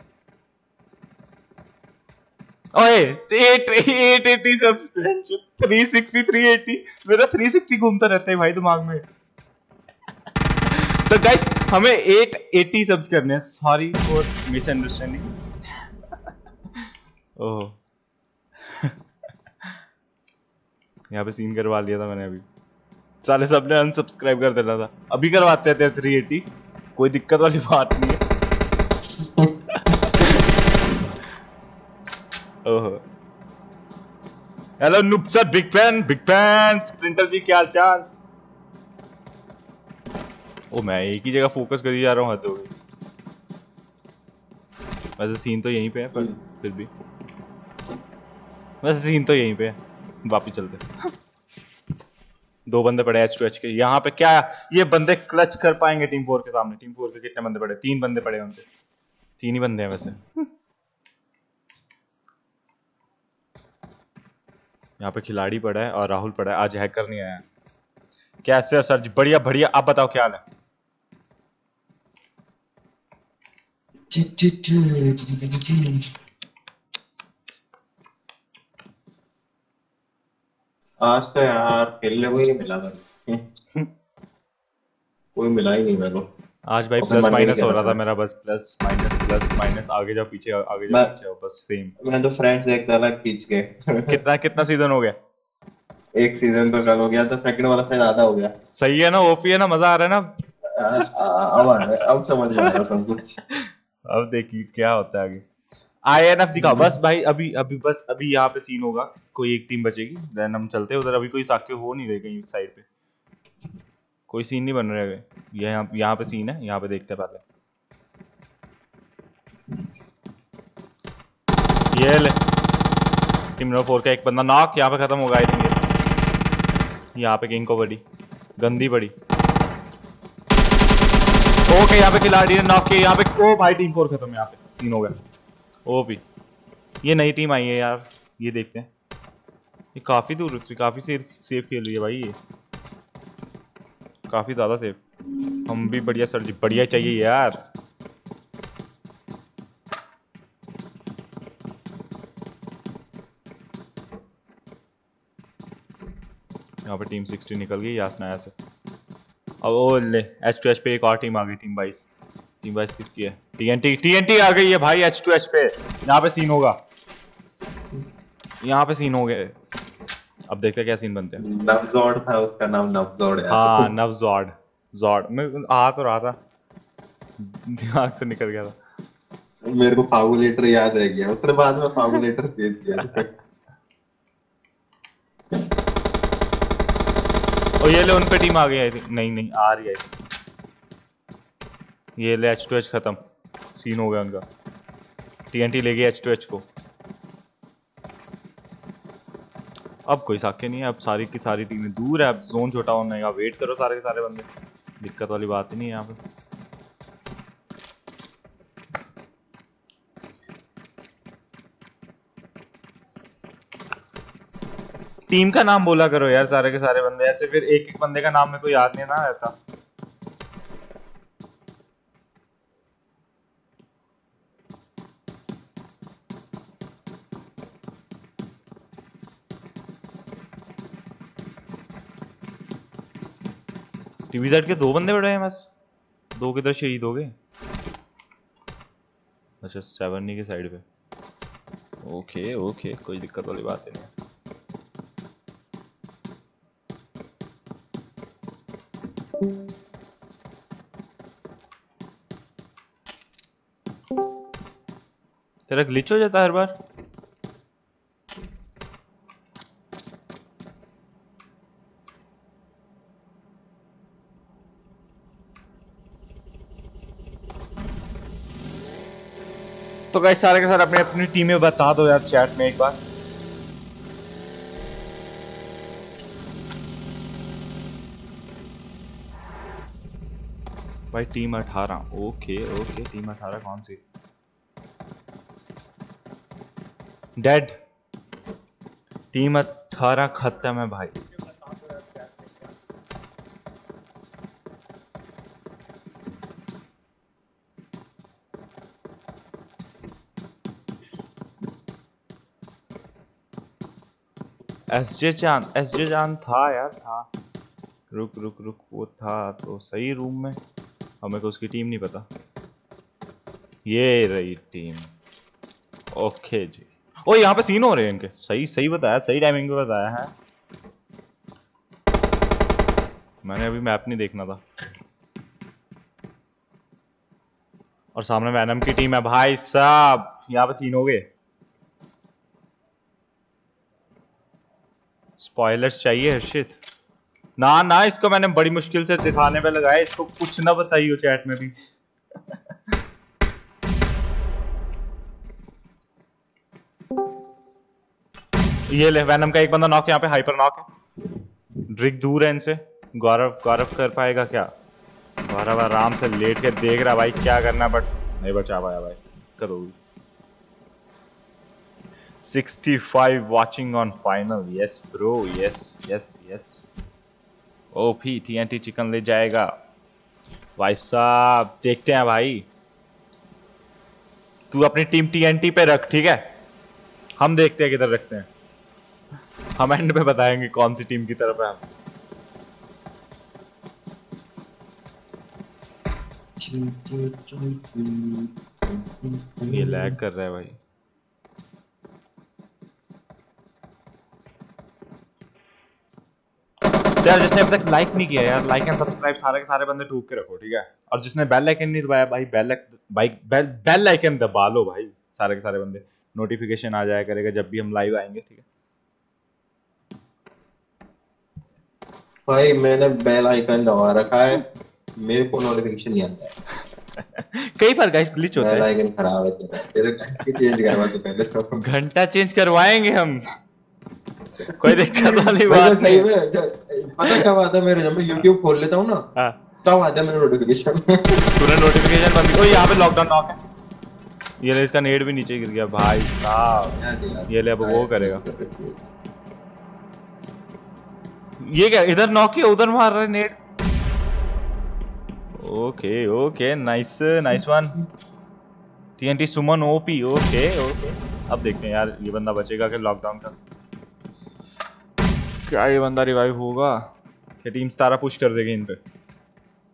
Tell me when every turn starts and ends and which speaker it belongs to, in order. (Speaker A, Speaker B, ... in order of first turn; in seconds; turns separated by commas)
Speaker A: 2.7-9.0, Speaker A: 10.7-15.3, Speaker A: 17.4-17.8, Speaker A: 18.7-18.9, Speaker A: 21.1-22.4, Speaker A: 23.2-28.2, Speaker B: 29.4-30.1, Speaker A: 32.6-33.0, Speaker A: 34.8-38.0, Speaker A: 40.7-42.7, Speaker A: 45.2-46.9, Speaker A: 48.8-51.1, Speaker A: 52.7-58.6, Speaker A: 59.4-60.2, Speaker A: 65.0-67.4, Speaker A: 68.4-70.4, Speaker B: 74.1-76.1, Speaker B: 81.0-83.4, Speaker B: 85.3-86.3, Speaker A: 86.7-91.9, Speaker B: 87.0-88.0, Speaker B: 92.0-94.2, Speaker A: 94.1-95.2, Speaker B: 96.2-98.5, Speaker A: 98.8-100.3, Speaker B: 100.8-103.3, Speaker A: 102.5-102.8, Speaker A: 103.5-105.4, Speaker A: 106.0-112.8, Speaker B: 106.6-106.9, Speaker A: 114.3-117.4, Speaker A: 121.9-122.4, Speaker A: 123.6-125.8, Speaker A: 127.2-128.0, Speaker A: 128.6-129.1, Speaker A: 131.7-135.1, Speaker A: 135.8-136.2, Speaker A: 137.0-138.9, Speaker A: 139.9-142.3, Speaker A: 144.3-145.0, Speaker A: 145.6-147.6, Speaker A: 156.9-158.5, Speaker A: 159.6-162.1, Speaker A: 162.6-166.8, Speaker A: 168.6-169.5, Speaker A: 170.5-171.4, Speaker B: 171.4-173.9, Speaker A: 173.5-176.3, Speaker A: 177.4-178.8, Speaker B: 179.7-183.3, Speaker A: 187.8-190.1, Speaker A: 192.2-193.2, Speaker A: 193.7-194.4, Speaker A: 195.5-196.7, Speaker A: 200.1-204.5, Speaker A: 205.0-206.2, Speaker A: 215.3-219.5, Speaker A: 234.3-235.7, Speaker A: 236.3-237.3, Speaker A: 239.6-240.8, Speaker A: 242.0-244.1, Speaker A: 255.7-256.7, Speaker A: 270.1-273.0, Speaker A: 281.1-284.0, Speaker A: 287.4-287.8, Speaker A: 289.3-291.1, Speaker A: 304.9-307.3, Speaker A: 308.1-310.6, Speaker A: 311.2-312.3, Speaker A: 313.9-315.1, Speaker A: 316.1-320.3, Speaker A: 323.4-324.6, Speaker A: 328.1-331.2, Speaker A: 335.4-336.8, Speaker A: 337.6-341.7, Speaker A: 348.9-350.9, Speaker A: 351.9-354.7, Speaker A: 355.4-359.9, Speaker A: 362.4-366.8, Speaker A: 367.9-369.7, Speaker A: 370.8-372.7, Speaker A: 374.7-376.4, Speaker A: 377.4-378.5, Speaker A: 379.8-381.8, Speaker B: 386.6-390.2, Speaker A: 389.7-390.8, Speaker A: 397.2-408.6, Speaker B: 412.5-414.6, Speaker B: 415.2-416.5, Speaker A: 417.4-418.9, Speaker B: 418.6-421.8, Speaker A: 421.8-423.4, Speaker B: 424.6-429.2, Speaker A: 424.8-426.3, Speaker B: 429.8-431.4, Speaker A: 431.6-433.6, Speaker A: 434.6-437.0, Speaker B: 436.9-439.0, Speaker A: 437.5-438.4, Speaker A: 441.6-443.6, Speaker A: 445.6-447.9, Speaker A: 449.2-453.5, Speaker A: 455.7-457.1, Speaker A: 457.6-459.0